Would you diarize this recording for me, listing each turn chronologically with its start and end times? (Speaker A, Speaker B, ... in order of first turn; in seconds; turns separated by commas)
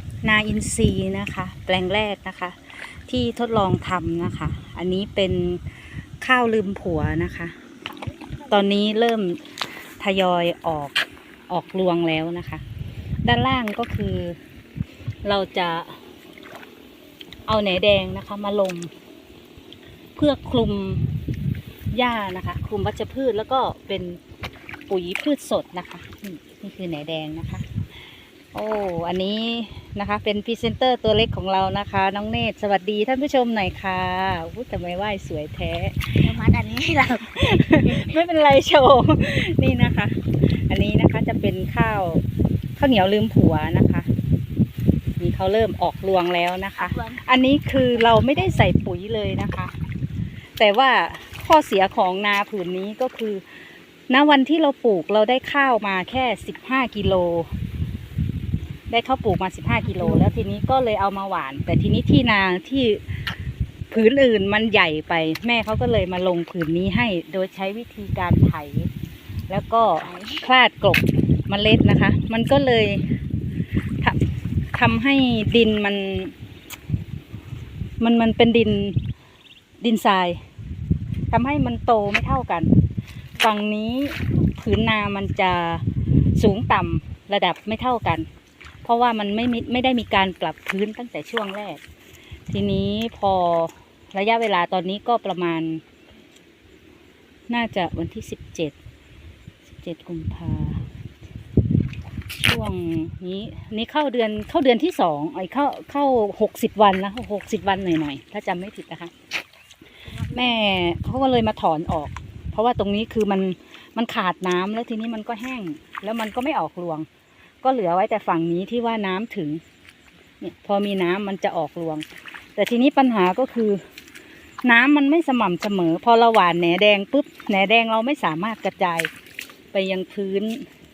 Speaker A: 0.2-5.6, Speaker A: 6.2-7.5, Speaker A: 8.5-11.0, Speaker A: 11.5-12.6, Speaker A: 13.2-14.4, Speaker A: 15.2-16.0, Speaker A: 17.5-18.9, Speaker A: 20.2-21.1, Speaker A: 21.9-24.2, Speaker A: 24.9-27.6, Speaker A: 28.5-36.3, Speaker B: 36.2-38.1, Speaker A: 37.3-42.2, Speaker A: 42.8-44.1, Speaker A: 45.2-49.7, Speaker B: 46.8-47.2, Speaker B: 47.9-48.7, Speaker A: 50.6-53.4, Speaker A: 54.1-57.5, Speaker A: 58.9-63.0, Speaker B: 59.8-60.2, Speaker A: 63.9-68.9, Speaker A: 69.5-73.1, Speaker B: 70.0-70.5, Speaker A: 74.7-76.3, Speaker A: 78.0-79.0, Speaker A: 79.8-80.4, Speaker A: 81.3-82.7, Speaker A: 83.4-85.8, Speaker A: 86.3-88.3, Speaker A: 88.8-91.8, Speaker A: 92.5-95.8, Speaker A: 97.5-98.7, Speaker A: 99.8-100.8, Speaker A: 102.4-109.1, Speaker B: 110.0-110.7, Speaker A: 110.3-117.1, Speaker A: 117.6-119.6, Speaker A: 120.4-122.0, Speaker A: 122.5-123.8, Speaker A: 124.6-129.1, Speaker A: 129.7-130.7